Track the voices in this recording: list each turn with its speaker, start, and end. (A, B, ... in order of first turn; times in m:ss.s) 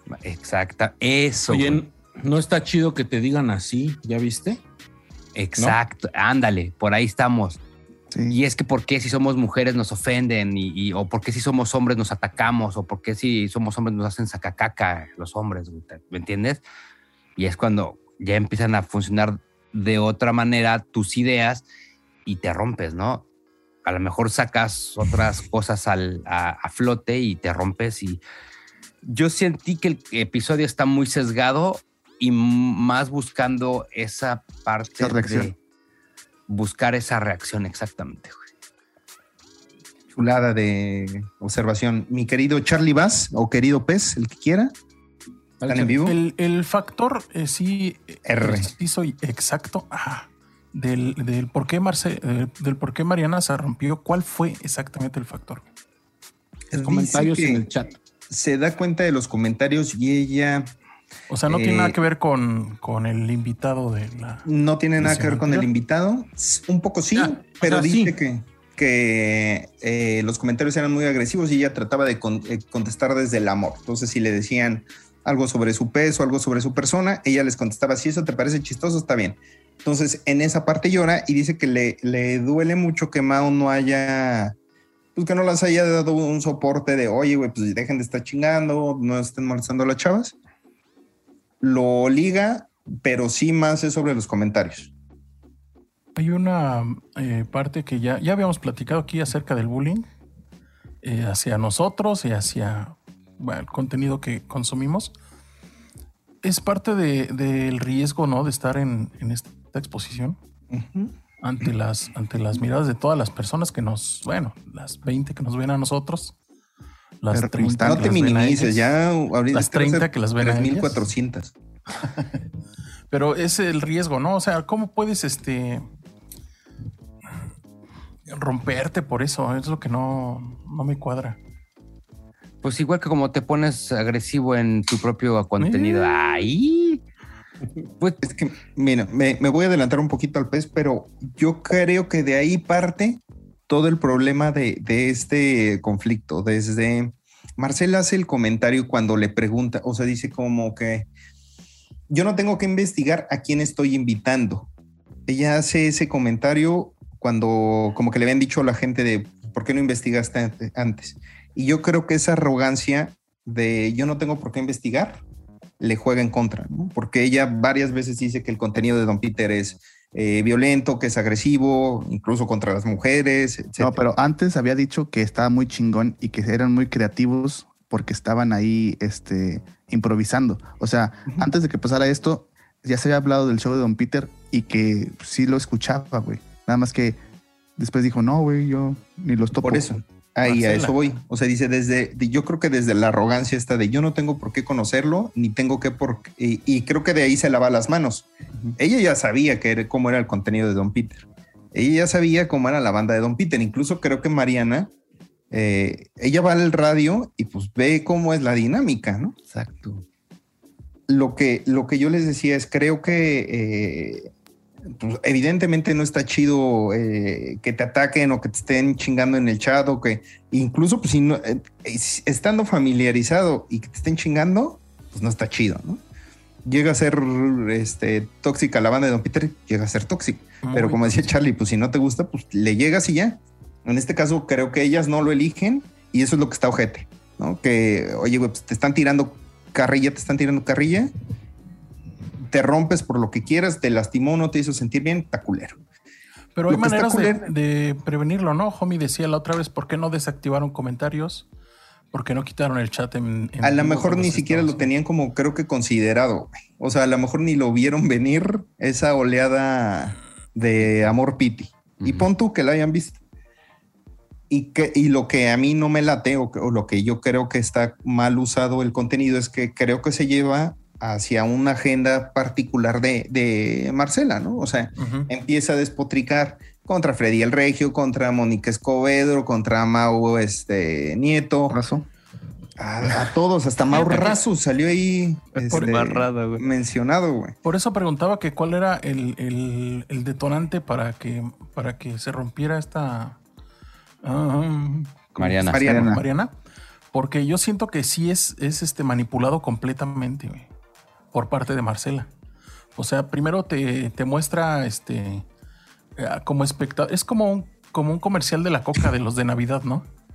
0:00.1-0:01.8 A
0:01.5-0:04.6 B
0:05.3-0:07.6 A
0:08.1-0:08.4 C
0:08.3-0:16.6 A
0:17.4-0:21.6 A
0:22.2-0:23.2 A
0:23.8-0:28.2 A
0:29.0-0:35.5 A
0:35.0-0:35.5 C
0:36.5-0:38.4 A
0:40.1-0:44.7 D
0:45.6-0:45.9 B
0:45.7-0:46.2 D
0:46.0-0:55.6 E
0:48.2-0:48.7 D
0:56.7-0:57.6 D
0:56.8-0:57.9 B
0:58.3-1:00.7 D
1:01.3-1:04.4 E
1:01.5-1:02.0 D
1:04.4-1:24.6 D
1:05.0-1:05.7 E
1:07.1-1:08.1 B
1:25.2-1:30.4 D
1:31.6-1:34.9 D
1:36.1-1:40.1 E
1:41.0-1:45.1 E
1:46.4-1:50.4 E
1:50.7-1:51.1 D
1:51.4-1:56.3 E
1:57.2-1:58.9 E
1:57.3-1:58.2 C
1:57.8-2:01.5 D
1:59.5-2:01.1 E
2:03.1-2:05.8 E
2:08.3-2:11.4 E
2:12.6-2:17.0 A
2:15.6-2:16.3 E
2:18.2-2:31.1 D
2:32.1-2:34.7 D
2:35.3-2:45.2 D
2:45.8-2:54.0 D
2:53.8-3:07.2 C
3:07.8-3:10.0 C
3:09.6-3:24.9 D
3:10.4-3:10.9 E
3:25.5-3:29.4 D
3:29.5-3:30.0 A
3:31.1-3:34.3 D
3:35.0-3:46.0 D
3:46.6-4:01.1 D
3:50.6-3:51.3 E
4:02.5-4:05.8 D
4:06.5-4:11.5 E
4:06.7-4:07.5 D
4:12.1-4:14.9 E
4:13.6-4:23.2 D
4:22.0-4:22.3 A
4:24.5-4:41.8 D
4:35.0-4:35.3 E
4:41.7-4:42.0 C
4:42.8-4:47.6 D
4:43.9-4:44.4 A
4:45.5-4:46.6 A
4:47.6-4:53.4 E
4:54.2-4:56.5 E
4:55.4-4:55.8 A
4:55.7-4:56.1 D
4:55.8-4:56.2 C
4:57.1-5:00.7 E
5:01.3-5:02.3 E
5:02.9-5:05.4 E
5:06.2-5:10.1 E